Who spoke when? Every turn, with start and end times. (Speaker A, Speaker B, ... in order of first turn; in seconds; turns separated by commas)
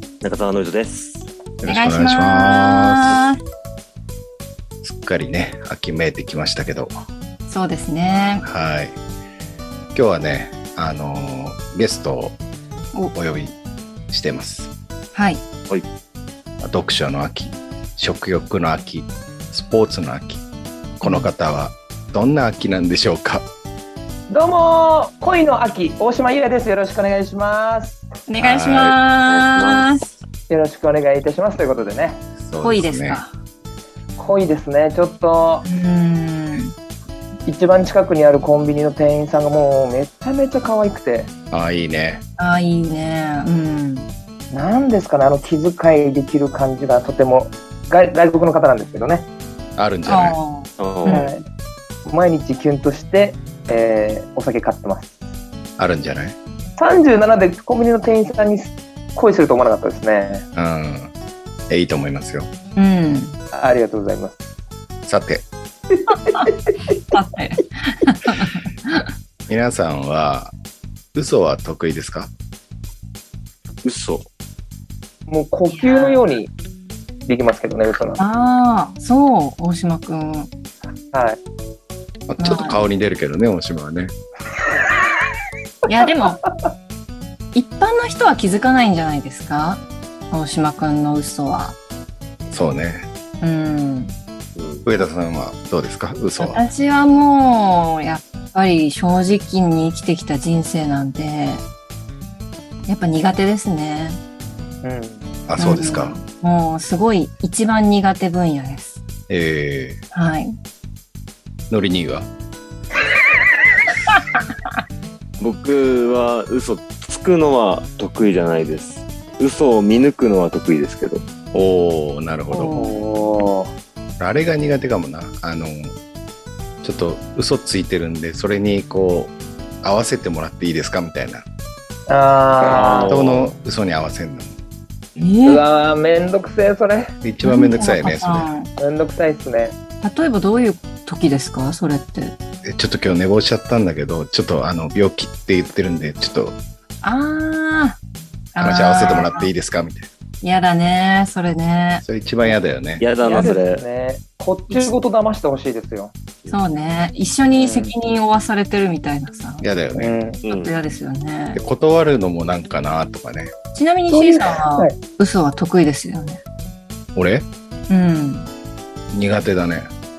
Speaker A: 0.2-1.3, Speaker B: 1.6-3.2, Speaker C: 1.6-3.4, Speaker B: 4.8-6.9, Speaker C: 7.5-8.4, Speaker B: 8.4-9.0, Speaker B: 9.9-12.4, Speaker B: 13.1-13.5, Speaker B: 14.1-14.7, Speaker C: 15.1-15.4, Speaker B: 16.6-20.4, Speaker B: 21.0-23.4, Speaker C: 21.0-21.3, Speaker D: 24.3-28.0, Speaker C: 28.3-30.1, Speaker B: 28.4-28.9, Speaker A: 29.2-29.9, Speaker D: 30.5-32.2, Speaker B: 32.4-33.2, Speaker C: 32.6-33.3, Speaker D: 34.2-35.6, Speaker C: 35.6-36.7, Speaker D: 37.5-41.3, Speaker B: 41.5-42.2, Speaker C: 42.4-44.1, Speaker D: 44.5-49.3, Speaker B: 49.8-50.4, Speaker C: 50.0-51.4, Speaker A: 50.8-51.2, Speaker D: 51.1-51.4, Speaker D: 52.0-55.1, Speaker B: 55.8-56.4, Speaker D: 56.8-60.4, Speaker B: 60.5-61.1, Speaker B: 61.7-62.5, Speaker C: 62.8-63.4, Speaker D: 63.5-64.4, Speaker B: 65.0-65.5, Speaker D: 66.1-66.5, Speaker C: 67.1-69.0, Speaker B: 69.5-70.5, Speaker B: 71.1-72.3, Speaker A: 73.8-74.2, Speaker D: 75.3-76.5, Speaker C: 75.7-76.2, Speaker D: 77.3-78.2, Speaker C: 78.2-80.5, Speaker D: 81.1-81.4, Speaker B: 82.3-84.1, Speaker C: 82.4-82.8, Speaker C: 85.9-86.4, Speaker C: 87.5-91.8, Speaker B: 92.5-93.1, Speaker C: 93.4-94.1, Speaker A: 94.5-94.8, Speaker B: 94.8-96.6, Speaker C: 96.4-101.6, Speaker C: 102.9-104.2, Speaker D: 104.8-105.2, Speaker B: 105.5-106.2, Speaker C: 105.6-109.0, Speaker B: 109.3-110.0, Speaker C: 110.1-110.5, Speaker B: 111.7-112.3, Speaker A: 115.4-121.2, Speaker B: 121.5-122.8, Speaker C: 122.5-123.0, Speaker D: 122.7-123.7, Speaker B: 124.2-125.9, Speaker B: 126.8-131.4, Speaker D: 132.1-133.2, Speaker A: 132.6-133.5, Speaker B: 133.1-134.6, Speaker C: 135.2-135.6, Speaker D: 135.4-137.1, Speaker B: 137.2-138.5, Speaker C: 137.4-138.7, Speaker D: 138.8-139.8, Speaker C: 140.0-142.3, Speaker B: 142.6-146.6, Speaker C: 147.0-148.0, Speaker C: 148.5-149.5, Speaker B: 148.6-150.1, Speaker C: 150.4-152.0, Speaker B: 152.0-153.1, Speaker A: 153.0-153.8, Speaker D: 153.2-156.1, Speaker C: 156.5-159.7, Speaker D: 157.6-157.9, Speaker B: 159.6-160.2, Speaker D: 160.0-160.4, Speaker A: 160.4-160.8, Speaker C: 160.4-161.6, Speaker B: 161.5-163.5, Speaker C: 163.7-166.4, Speaker D: 164.1-165.0, Speaker B: 167.1-167.4, Speaker C: 167.9-168.5, Speaker B: 169.1-169.9